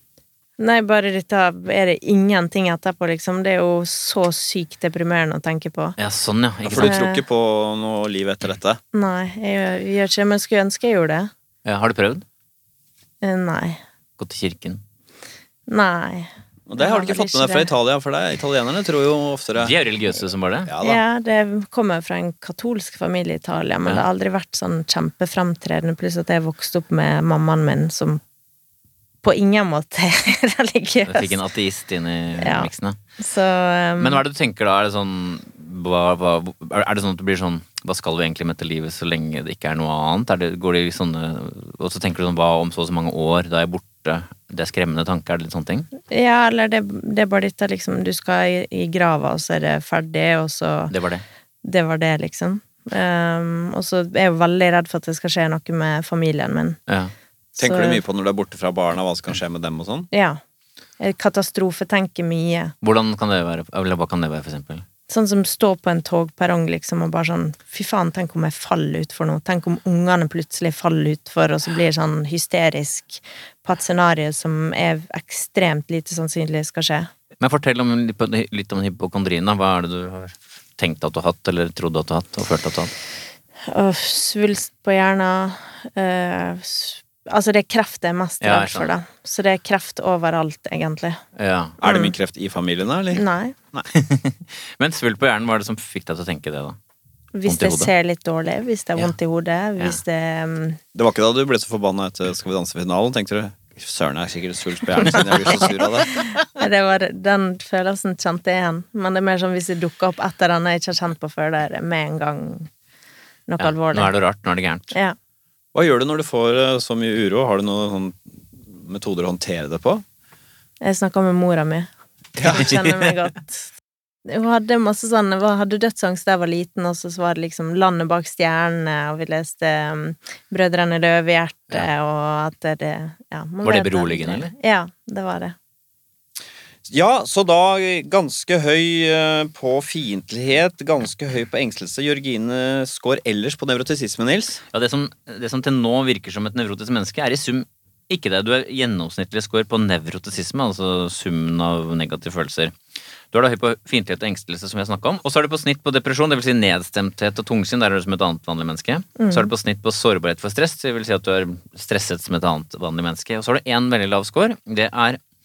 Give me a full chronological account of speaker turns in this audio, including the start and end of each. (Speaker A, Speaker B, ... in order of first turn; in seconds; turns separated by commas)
Speaker A: 0.6-5.9, Speaker B: 6.0-7.0, Speaker C: 6.6-8.8, Speaker A: 6.8-7.2, Speaker A: 8.9-11.3, Speaker B: 11.6-12.2, Speaker A: 13.2-13.8, Speaker B: 14.2-14.8, Speaker A: 15.7-17.7, Speaker C: 16.7-19.7, Speaker B: 19.6-20.7, Speaker C: 20.7-21.0, Speaker A: 20.8-28.2, Speaker A: 29.2-31.4, Speaker B: 31.1-33.0, Speaker A: 32.4-34.2, Speaker B: 34.0-45.9, Speaker A: 46.1-50.9, Speaker B: 50.9-51.2, Speaker A: 51.6-56.8, Speaker B: 56.9-57.1, Speaker C: 57.6-60.1, Speaker A: 57.6-58.0, Speaker A: 60.1-60.4, Speaker A: 61.0-62.7, Speaker B: 62.8-64.8, Speaker A: 65.1-77.1, Speaker B: 77.4-82.9, Speaker A: 83.7-91.2, Speaker B: 88.4-88.9, Speaker B: 91.3-91.8, Speaker C: 91.8-93.9, Speaker A: 91.8-92.1, Speaker A: 93.1-93.5, Speaker B: 93.9-96.8, Speaker A: 97.3-100.8, Speaker B: 97.5-97.9, Speaker C: 100.9-106.1, Speaker A: 106.3-112.7, Speaker A: 113.5-114.1, Speaker B: 113.6-114.9, Speaker C: 115.7-120.0, Speaker A: 120.8-121.9, Speaker C: 122.4-122.6, Speaker A: 122.4-123.7, Speaker B: 122.5-123.1, Speaker A: 124.2-135.5, Speaker B: 133.6-134.5, Speaker C: 136.8-144.6, Speaker B: 144.7-152.7, Speaker B: 153.3-165.2, Speaker A: 159.2-159.5